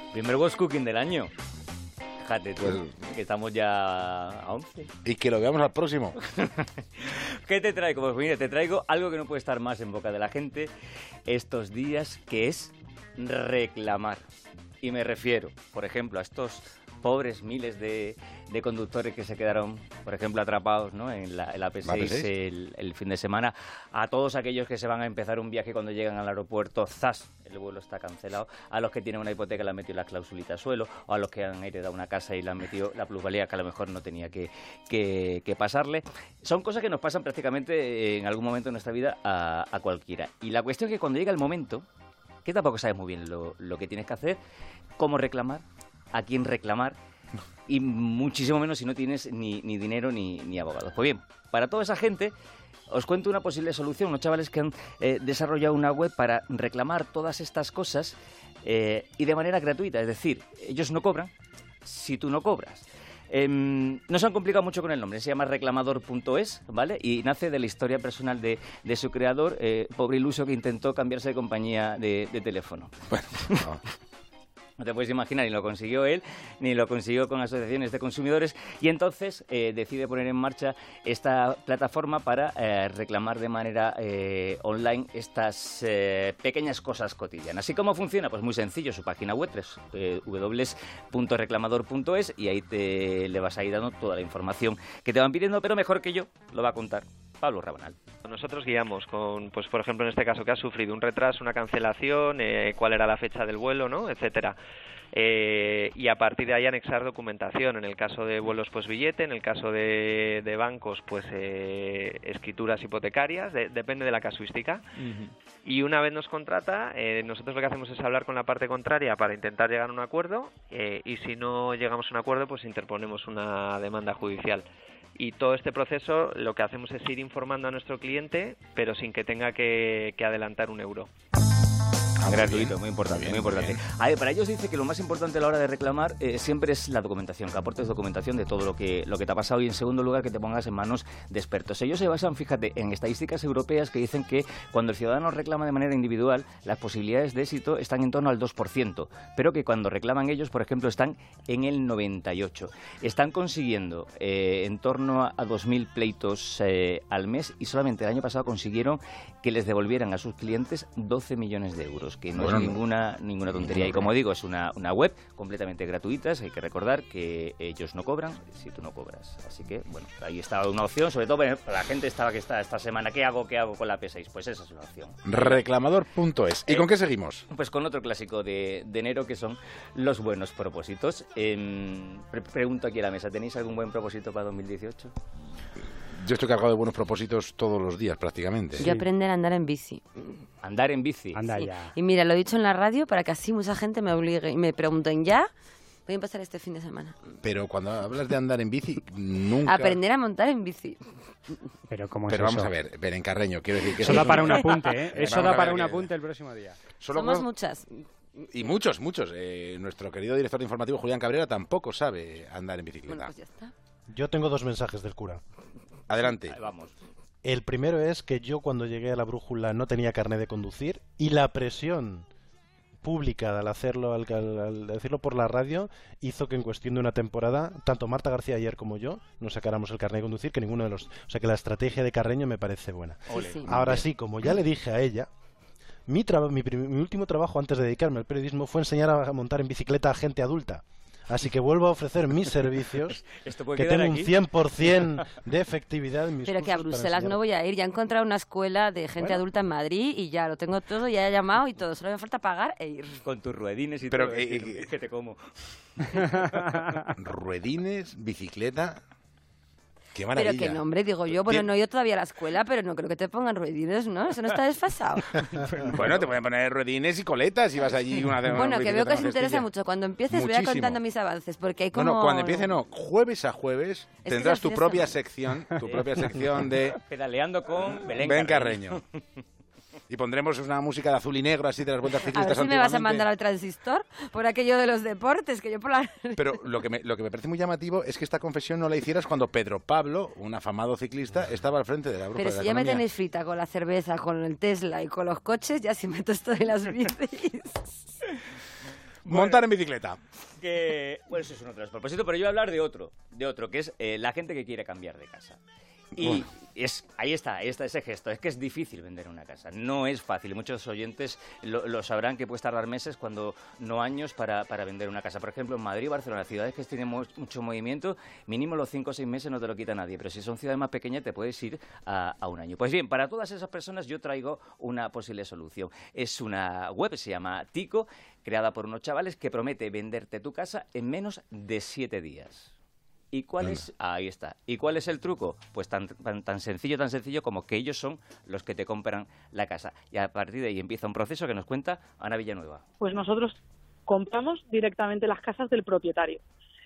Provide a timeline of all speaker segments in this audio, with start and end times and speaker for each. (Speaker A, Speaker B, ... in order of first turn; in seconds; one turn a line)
Speaker A: 0.1-1.3
Speaker A: 2.2-4.9
Speaker B: 2.6-2.9
Speaker B: 5.0-6.2
Speaker A: 6.2-10.7
Speaker A: 11.3-14.2
Speaker A: 14.8-41.8
Speaker B: 21.8-22.3
Speaker A: 42.4-44.4
Speaker A: 45.0-47.0
Speaker A: 47.7-52.3
Speaker A: 52.9-61.3
Speaker A: 61.8-73.6
Speaker B: 73.1-73.8
Speaker A: 74.8-98.0
Speaker C: 98.2-104.5
Speaker C: 105.1-114.8
Speaker C: 115.6-124.6
Speaker C: 125.2-131.1
Speaker B: 132.2-133.8
Speaker A: 132.2-175.6
Speaker B: 162.3-162.8
Speaker B: 163.6-164.0
Speaker B: 175.2-177.4
Speaker A: 177.5-185.1
Speaker B: 186.1-188.9
Speaker D: 188.8-190.3
Speaker A: 190.6-191.4
Speaker E: 191.3-191.9
Speaker D: 191.5-195.5
Speaker D: 196.1-197.1
Speaker B: 197.4-200.0
Speaker D: 199.6-201.7
Speaker E: 201.9-202.7
Speaker B: 202.3-206.1
Speaker E: 204.1-206.8
Speaker B: 207.0-207.5
Speaker D: 207.1-208.0
Speaker B: 208.4-213.3
Speaker D: 213.1-213.7
Speaker F: 214.1-215.4
Speaker B: 216.1-216.6
Speaker A: 216.5-216.9
Speaker F: 217.4-222.2
Speaker F: 223.0-235.3
Speaker A: 233.3-234.0
Speaker D: 233.4-233.8
Speaker F: 236.1-243.2
Speaker A: 243.0-244.4
Speaker F: 243.7-247.4
Speaker D: 246.4-253.2
Speaker F: 249.2-249.4
Speaker A: 253.2-255.4
Speaker B: 254.1-254.9
Speaker A: 256.1-256.8
Speaker B: 257.2-259.0
Speaker B: 260.1-261.7
Speaker D: 260.3-265.5
Speaker E: 265.6-266.2
Speaker B: 265.9-269.7
Speaker D: 268.5-272.7
Speaker B: 270.3-271.0
Speaker B: 271.9-276.9
Speaker D: 274.2-275.2
Speaker A: 277.1-279.0
Speaker B: 278.2-279.0
Speaker B: 280.1-283.3
Speaker D: 282.2-286.5
Speaker B: 286.4-293.0
Speaker D: 292.3-297.8
Speaker A: 299.2-299.6
Speaker B: 299.2-300.2
Speaker A: 300.6-305.6
Speaker A: 306.1-332.7
Speaker B: 306.2-306.4
Speaker A: 333.3-342.8
Speaker G: 343.0-346.4